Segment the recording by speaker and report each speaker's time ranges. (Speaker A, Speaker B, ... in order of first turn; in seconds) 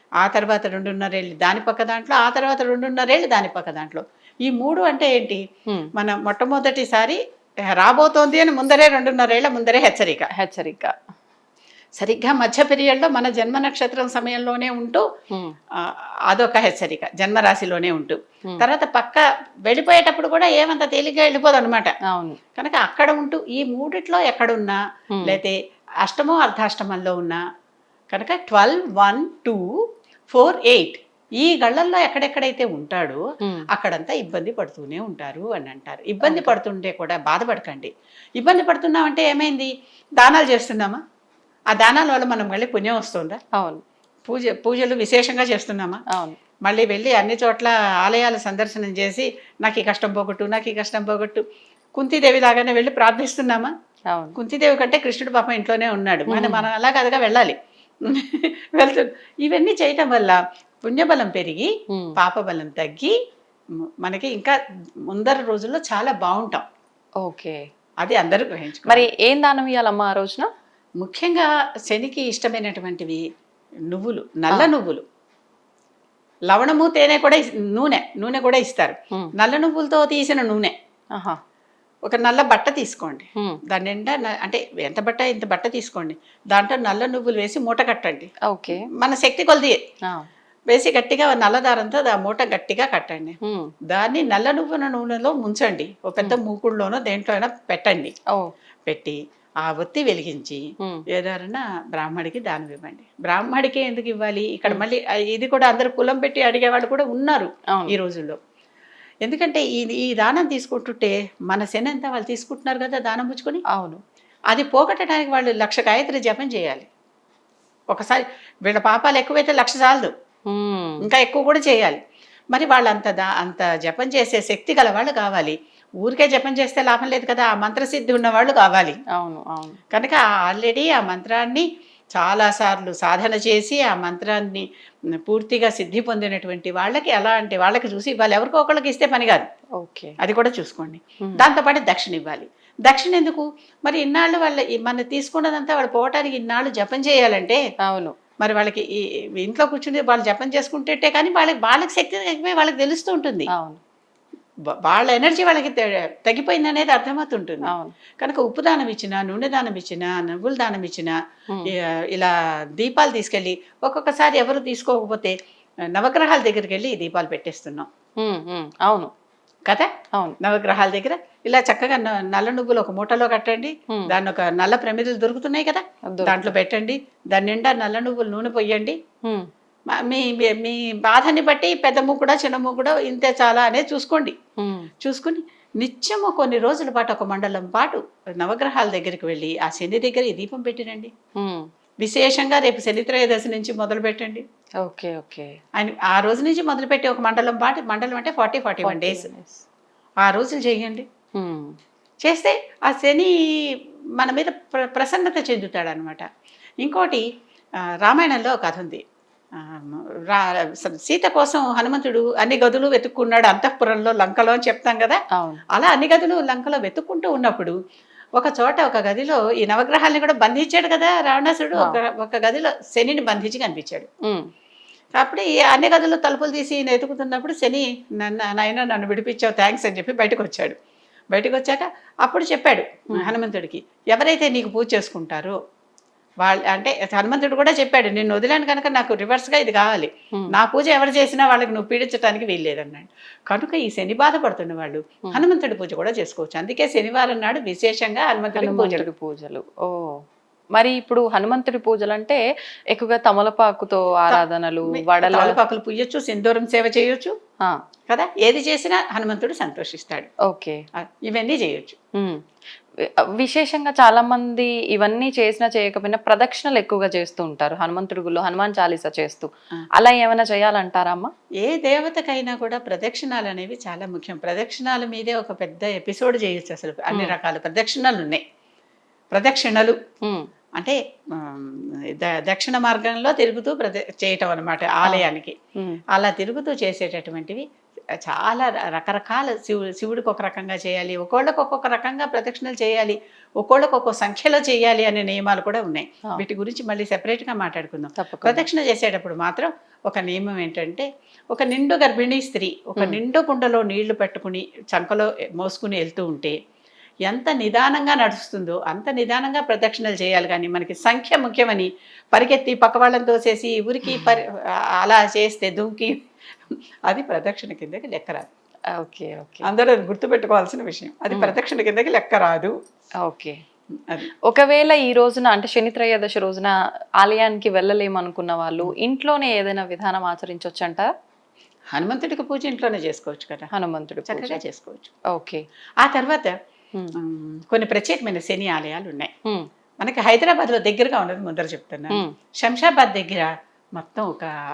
Speaker A: 0.2-5.4, 6.0-7.2, 7.8-10.3, 12.0-15.1, 15.8-21.9, 22.6-27.4, 28.1-29.7, 30.3-33.2, 33.7-41.0, 41.7-43.4, 44.3-46.0, 46.6-51.4, 52.0-53.7, 54.4-63.1, 64.0-64.5, 65.1-66.7, 68.0-69.1, 71.0-73.2, 73.9-75.0, 76.5-80.8, 82.1-89.8, 90.7-93.4, 93.9-98.1, 98.9-100.6, 101.1-108.4, 109.2-113.6, 114.5-116.9, 117.9-120.1, 121.0-122.0, 122.5-129.0, 129.9-134.7, 135.2-139.5, 140.2-147.6, 148.4-153.5, 154.8-161.2, 161.7-165.3, 165.9-167.9, 170.4-179.0, 179.9-184.4, 185.0-191.1, 192.0-194.4, 195.8-199.3, 200.2-201.1, 202.2-206.3, 206.8-207.2, 208.0-209.0, 209.6-215.2, 215.7-217.8, 218.4-224.1, 225.2-230.8, 231.3-235.6, 236.4-249.1, 254.3-257.3, 258.1-260.3, 261.0-262.0, 271.6-278.4, 279.3-280.0, 280.8-285.6, 286.1-287.6, 288.2-306.6, 307.3-316.2, 317.1-318.5, 319.7-322.7, 324.0-324.3, 331.9-333.7, 334.3-335.1, 336.0-336.5, 337.2-339.3, 340.0-344.5
Speaker B: 10.3-10.9, 15.3-15.6, 22.1-22.4, 25.1-25.4, 33.4-33.7, 36.2-36.6, 43.5-43.8, 46.1-46.4, 54.1-54.4, 56.3-56.7, 61.9-62.2, 67.2-67.6, 68.8-70.5, 81.2-81.4, 83.4-83.6, 88.5-88.9, 90.0-90.3, 93.4-93.7, 107.7-108.0, 113.7-114.0, 120.5-121.1, 129.1-129.8, 139.8-140.2, 141.2-141.5, 147.8-148.2, 153.5-153.8, 157.6-158.0, 168.2-169.1, 173.9-174.2, 176.1-176.6, 179.2-179.5, 184.6-184.9, 191.4-191.7, 194.8-195.6, 198.8-199.6, 201.4-201.8, 215.3-215.6, 221.8-222.0, 224.2-224.5, 248.5-250.2, 250.8-252.4, 252.9-255.6, 260.5-260.8, 262.1-262.4, 263.0-271.3, 277.1-277.4, 285.0-286.0, 298.2-298.7, 302.9-303.2, 314.1-314.4, 318.9-319.7, 321.3-321.6, 323.2-323.6, 324.3-331.1, 333.7-334.6, 335.3-335.6, 342.1-342.4